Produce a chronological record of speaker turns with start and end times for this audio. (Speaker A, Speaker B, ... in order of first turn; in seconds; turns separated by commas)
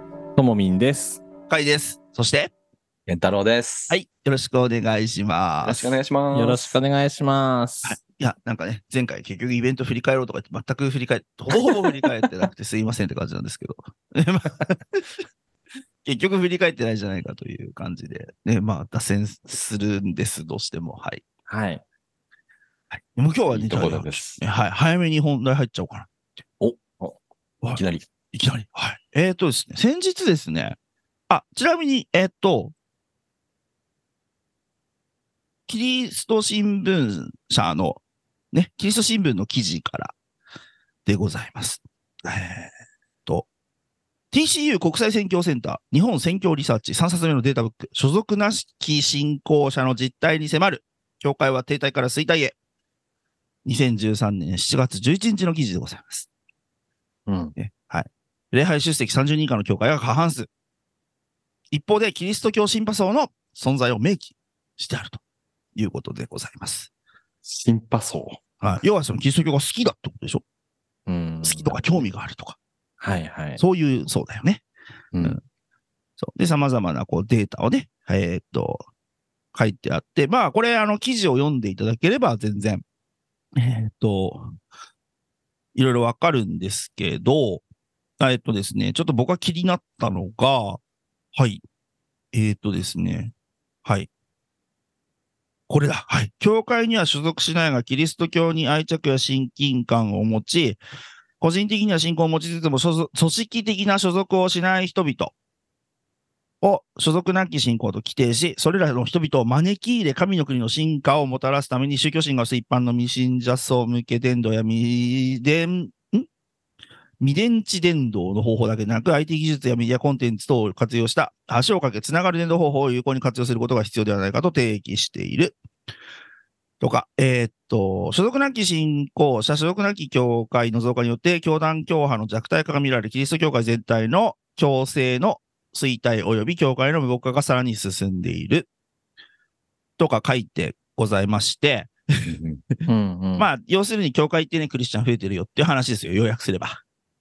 Speaker A: 0.4-1.2, Speaker B: 1.5-2.5, Speaker C: 3.1-4.0, Speaker B: 3.9-6.0, Speaker C: 5.6-6.7, Speaker A: 6.3-8.0, Speaker B: 7.8-15.2, Speaker B: 16.0-21.2, Speaker A: 21.5-21.8, Speaker B: 22.9-26.1, Speaker C: 23.5-24.4, Speaker C: 27.7-28.0, Speaker B: 28.3-30.8, Speaker B: 31.3-32.7, Speaker B: 35.7-38.0, Speaker B: 38.5-40.1, Speaker B: 41.1-42.7, Speaker B: 44.3-52.6, Speaker B: 53.6-56.3, Speaker A: 57.3-57.5, Speaker B: 57.6-60.5, Speaker B: 61.7-65.2, Speaker B: 65.8-66.9, Speaker A: 67.5-68.4, Speaker B: 68.6-70.4, Speaker A: 71.1-71.8, Speaker B: 71.4-72.6, Speaker A: 73.0-73.6, Speaker B: 73.6-74.6, Speaker A: 75.1-75.4, Speaker B: 76.2-78.8, Speaker B: 79.5-82.8, Speaker B: 83.6-84.6, Speaker B: 85.8-87.6, Speaker B: 88.2-90.8, Speaker B: 91.3-91.6, Speaker B: 92.3-93.3, Speaker B: 93.8-94.1, Speaker B: 95.7-100.8, Speaker B: 101.4-105.3, Speaker B: 106.6-116.3, Speaker B: 117.2-125.6, Speaker B: 126.8-138.7, Speaker B: 140.0-142.3, Speaker C: 142.3-142.6, Speaker A: 142.9-143.5, Speaker B: 143.4-146.8